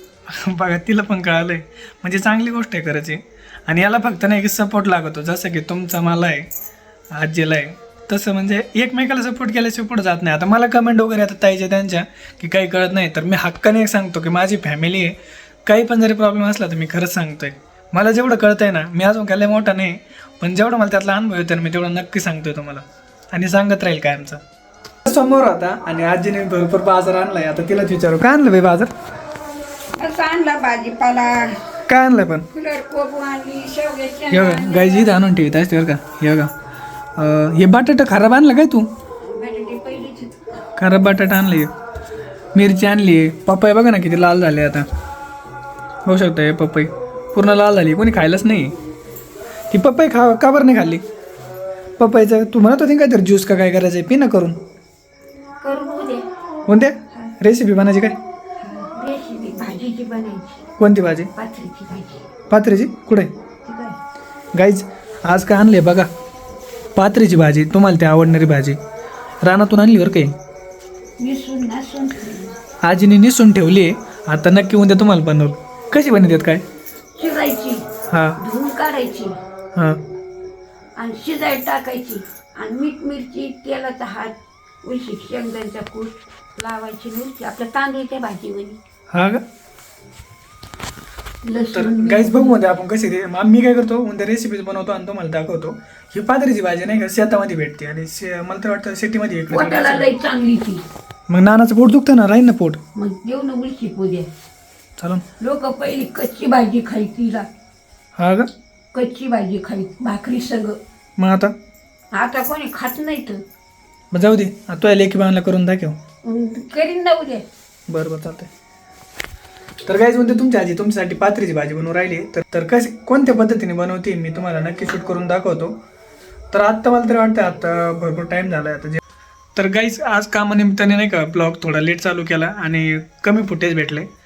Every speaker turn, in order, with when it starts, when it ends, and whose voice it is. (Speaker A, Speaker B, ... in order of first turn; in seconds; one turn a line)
Speaker A: 0.3-6.5
Speaker A: 7.1-24.4
Speaker A: 25.0-28.9
Speaker B: 30.0-31.6
Speaker A: 31.9-32.5
Speaker B: 32.5-35.2
Speaker A: 34.3-36.5
Speaker A: 37.1-38.9
Speaker B: 39.2-40.5
Speaker A: 40.8-41.7
Speaker A: 42.5-44.9
Speaker A: 46.0-48.7
Speaker A: 49.7-51.0
Speaker A: 52.0-54.6
Speaker B: 55.6-56.3
Speaker A: 56.7-58.2
Speaker B: 58.6-60.7
Speaker A: 60.8-61.3
Speaker B: 61.3-62.3
Speaker A: 62.5-63.3
Speaker B: 63.6-64.0
Speaker A: 64.5-66.1
Speaker A: 67.0-68.8
Speaker A: 69.4-70.3
Speaker B: 71.2-72.6
Speaker A: 72.8-76.6
Speaker B: 77.2-77.8
Speaker A: 78.1-78.4
Speaker B: 78.4-79.4
Speaker A: 79.7-80.0
Speaker B: 81.0-88.8
Speaker A: 89.1-89.4
Speaker B: 91.4-92.6
Speaker A: 91.7-100.1
Speaker B: 99.5-100.8
Speaker A: 101.3-102.8
Speaker B: 103.0-104.3
Speaker A: 105.0-105.2
Speaker B: 105.4-107.5
Speaker A: 108.2-108.5
Speaker B: 108.9-110.8
Speaker A: 111.2-111.5
Speaker B: 112.1-113.4
Speaker A: 114.1-116.0
Speaker B: 116.2-117.5
Speaker A: 117.9-118.5
Speaker A: 119.8-125.8
Speaker A: 126.5-129.0
Speaker A: 129.6-134.1